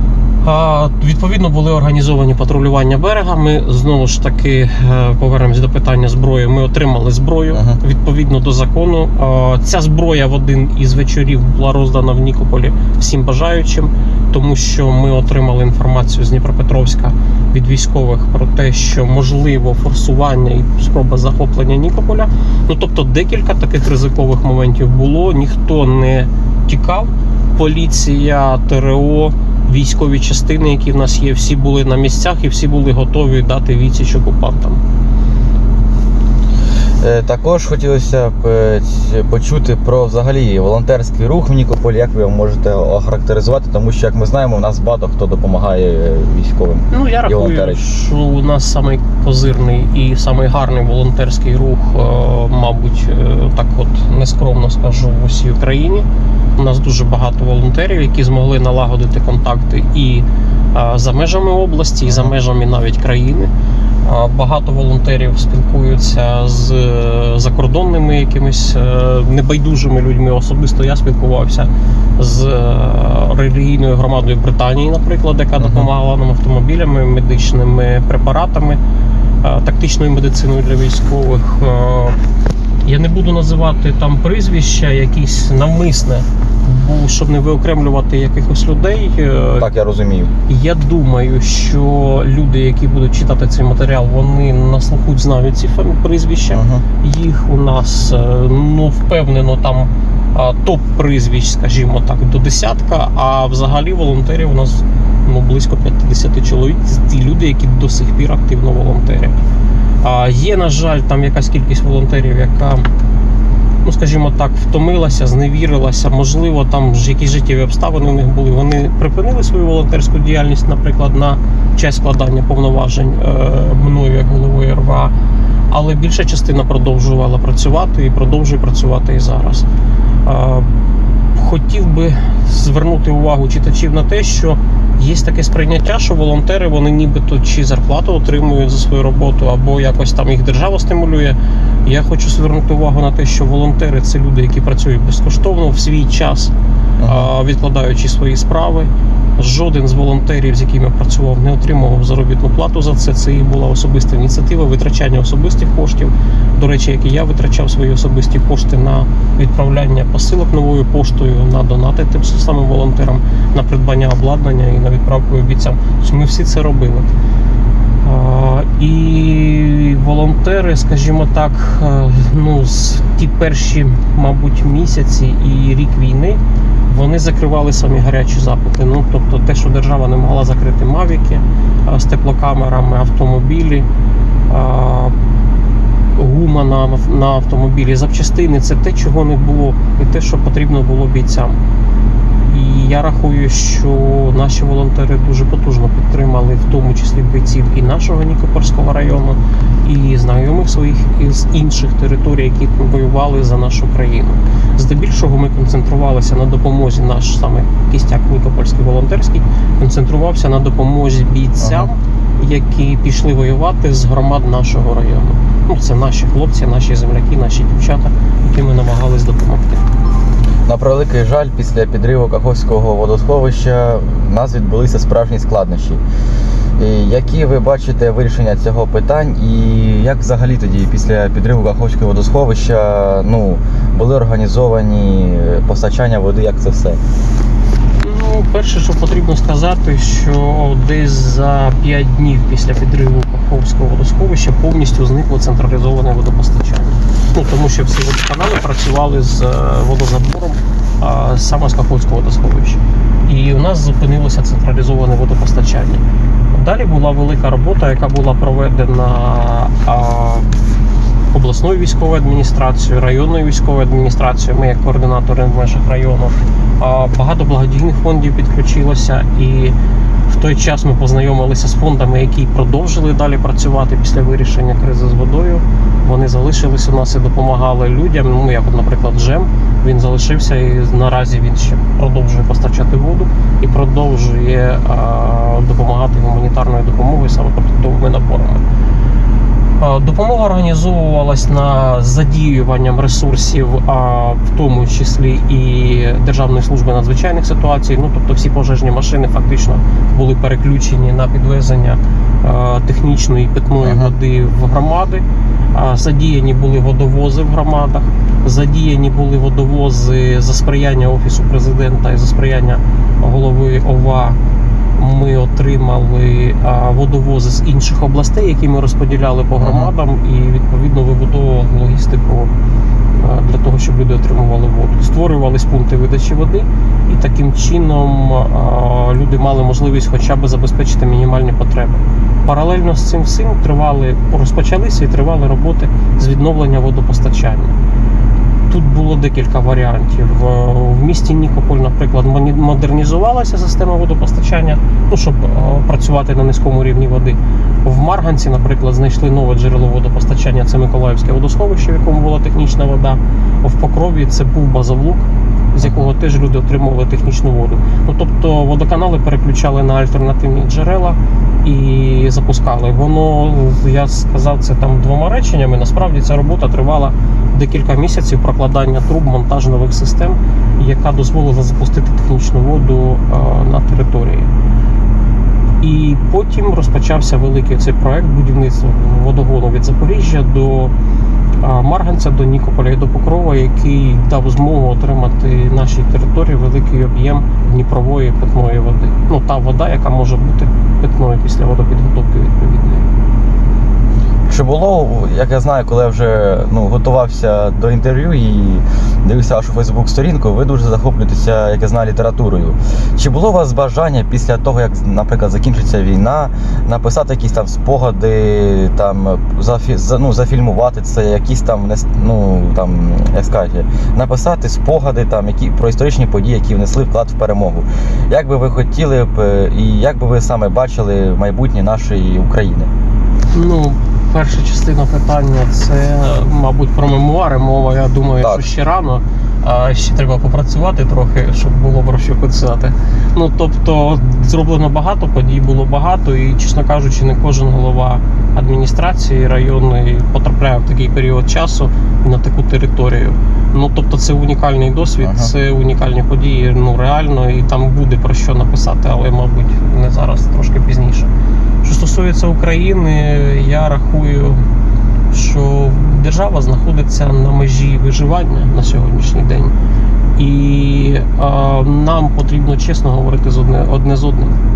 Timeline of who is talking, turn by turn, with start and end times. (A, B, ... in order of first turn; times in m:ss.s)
0:00.4-0:34.8 A
0:07.5-0:07.8 B
0:37.0-0:47.8 B
0:46.9-1:03.5 A
1:02.1-1:02.3 B
1:04.0-1:18.8 A
1:15.6-1:15.9 B
1:19.4-1:22.2 A
1:22.8-1:29.7 A
1:29.6-1:30.3 B
1:30.5-1:49.4 A
1:36.5-1:36.8 B
1:50.0-1:52.9 A
1:53.8-2:05.1 A
2:05.7-2:09.6 A
2:10.2-2:10.7 A
2:11.4-2:26.5 A
2:27.0-2:27.3 B
2:27.1-2:47.1 A
2:48.0-3:03.9 A
3:04.5-3:05.2 A
3:06.2-3:11.6 A
3:12.5-3:39.8 A
3:31.6-3:31.9 B
3:40.7-3:46.0 B
3:46.8-3:57.0 B
3:58.0-4:20.5 A
4:21.3-4:29.8 A
4:30.3-4:48.6 A
4:49.8-5:14.4 A
5:03.8-5:04.2 B
5:15.0-5:22.5 A
5:19.6-5:19.9 B
5:23.2-5:37.8 A
5:38.7-6:14.5 A
5:55.8-5:56.1 B
6:15.8-6:20.9 A
6:21.6-6:33.1 A
6:34.5-7:02.9 B
7:03.5-7:31.3 A
7:08.4-7:08.7 B
7:25.2-7:25.5 B
7:31.8-7:34.6 A
7:35.3-7:39.8 A
7:40.4-7:44.6 A